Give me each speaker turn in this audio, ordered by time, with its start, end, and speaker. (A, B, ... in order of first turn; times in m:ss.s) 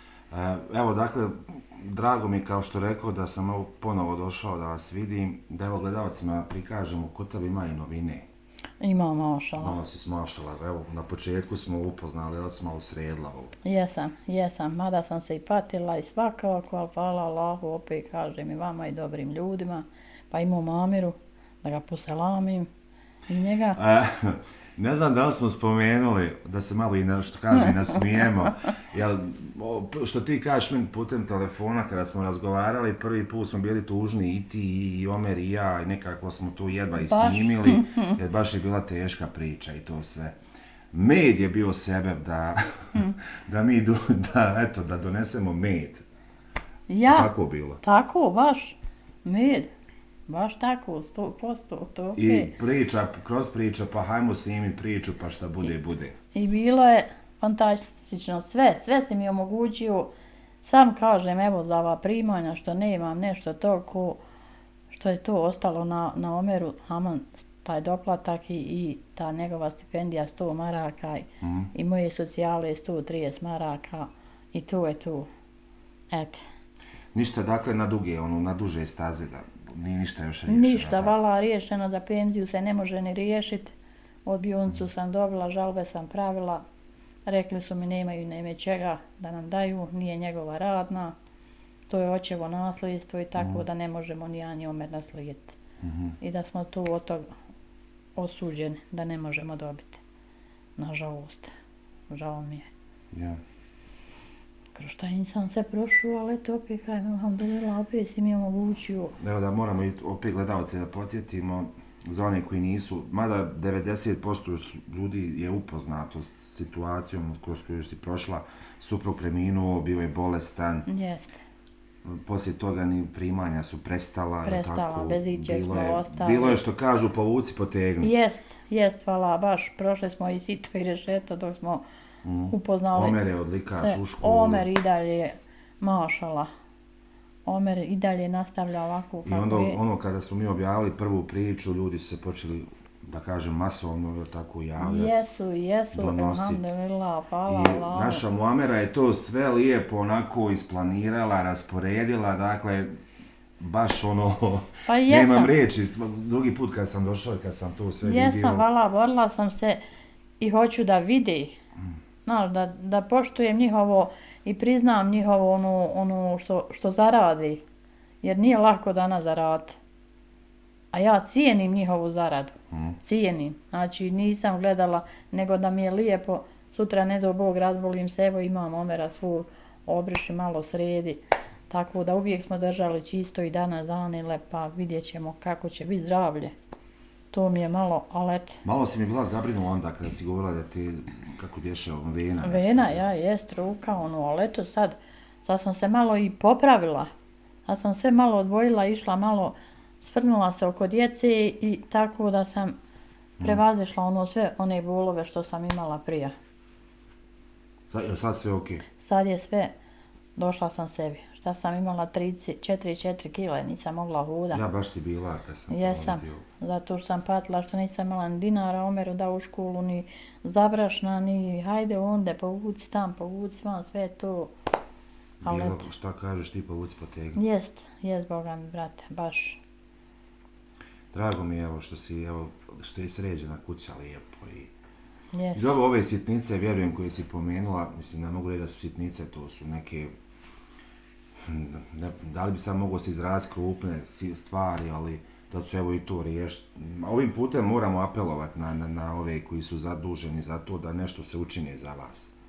0:00.3-0:08.3 A
0:08.8-0:09.8 B
0:09.6-0:13.5 A
0:13.6-0:22.7 B
0:23.3-0:23.8 B
0:23.8-0:40.4 A
0:37.0-0:38.2 B
0:40.9-0:46.0 A
0:46.9-0:47.3 B
0:47.1-0:47.8 A
0:47.8-0:49.7 B
0:50.3-0:52.5 B
0:52.2-0:56.2 A
0:56.3-1:04.2 B
1:04.9-1:15.3 B
1:11.4-1:11.7 A
1:16.1-1:16.4 B
1:17.1-1:21.1 A
1:20.5-1:26.6 B
1:27.2-1:31.1 B
1:31.9-1:35.6 B
1:33.4-1:33.6 A
1:35.8-1:36.1 A
1:36.2-1:37.3 B
1:38.2-1:40.0 B
1:40.8-1:41.5 B
1:42.1-1:42.7 B
1:43.1-1:43.4 A
1:44.7-1:49.2 B
1:49.2-2:00.9 A
2:00.9-2:01.4 B
2:02.0-2:08.1 A
2:04.4-2:06.6 B
2:08.0-2:11.8 B
2:12.2-2:14.6 A
2:12.5-2:13.2 B
2:13.7-2:16.5 B
2:17.4-2:19.8 B
2:19.2-2:25.1 A
2:24.8-2:28.2 B
2:25.9-2:26.7 A
2:27.5-2:32.9 A
2:33.6-2:38.6 A
2:34.8-2:35.6 B
2:38.0-2:39.8 B
2:40.4-2:41.6 B
2:42.2-2:47.6 B
2:48.2-2:49.8 B
2:50.9-3:06.5 B
2:52.7-2:53.0 A
3:07.3-3:08.6 B
3:08.6-3:13.0 A
3:12.4-3:17.1 B
3:17.6-3:22.8 B
3:23.4-3:26.3 B
3:27.9-3:28.8 A
3:29.0-3:29.7 B
3:30.4-3:34.6 B
3:34.5-3:36.4 A
3:35.7-3:44.5 B
3:45.4-3:47.4 A
3:45.4-3:45.9 B
3:47.3-3:49.6 B
3:51.1-3:54.7 A
3:55.3-3:55.8 B
3:55.5-4:00.1 A
4:01.4-4:12.3 A